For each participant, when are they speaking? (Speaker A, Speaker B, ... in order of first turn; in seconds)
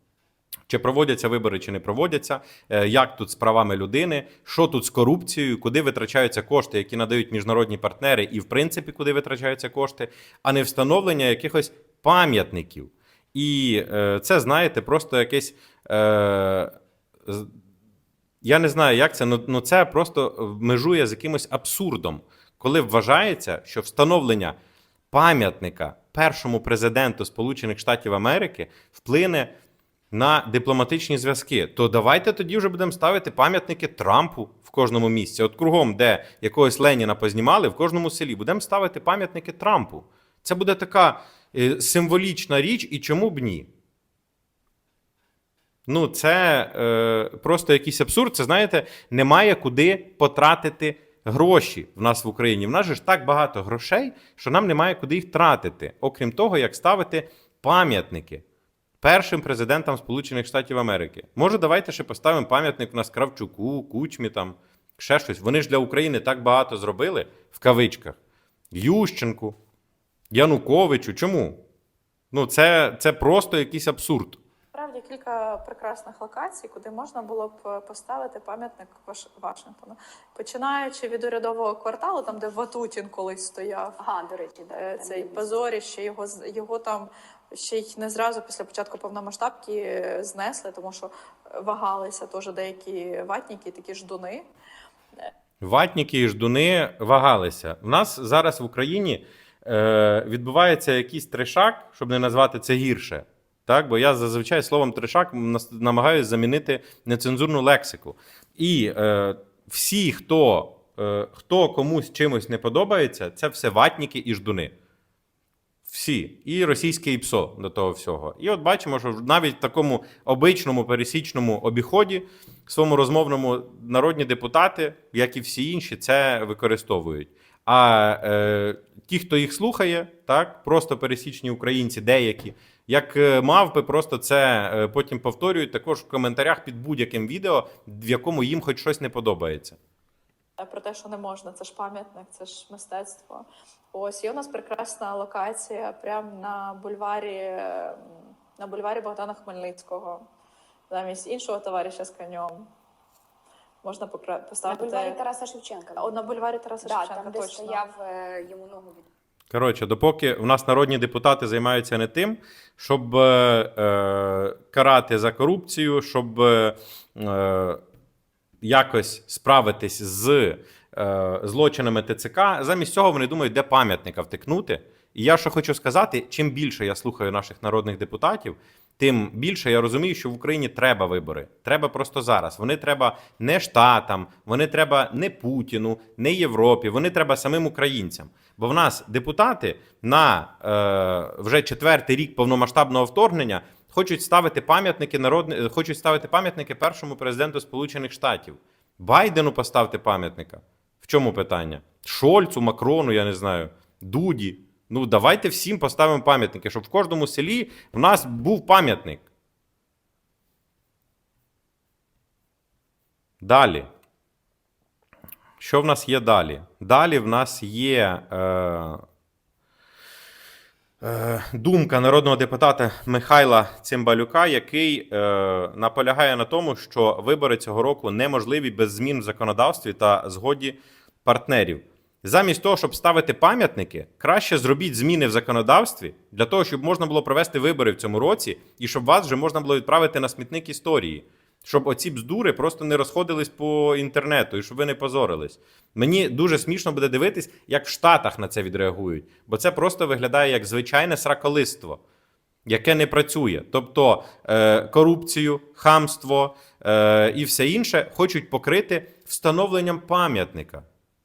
Speaker A: 0.7-16.7, 17.3-17.5, 18.4-24.6, 25.1-29.5, 30.1-43.7, 45.9-58.4, 59.0-68.2, 68.7-69.6, 70.3-71.6, 72.3-74.4, 95.6-114.7, 115.9-139.8, 159.5-167.8, 168.6-209.2, 213.4-213.9, 215.6-219.0, 221.0-252.0, 252.7-260.9
Speaker B: 74.7-84.0, 84.8-94.5, 140.6-150.3, 150.9-152.7, 153.8-155.2, 156.0-157.8
Speaker C: 84.0-85.6, 154.7-156.3, 156.8-159.1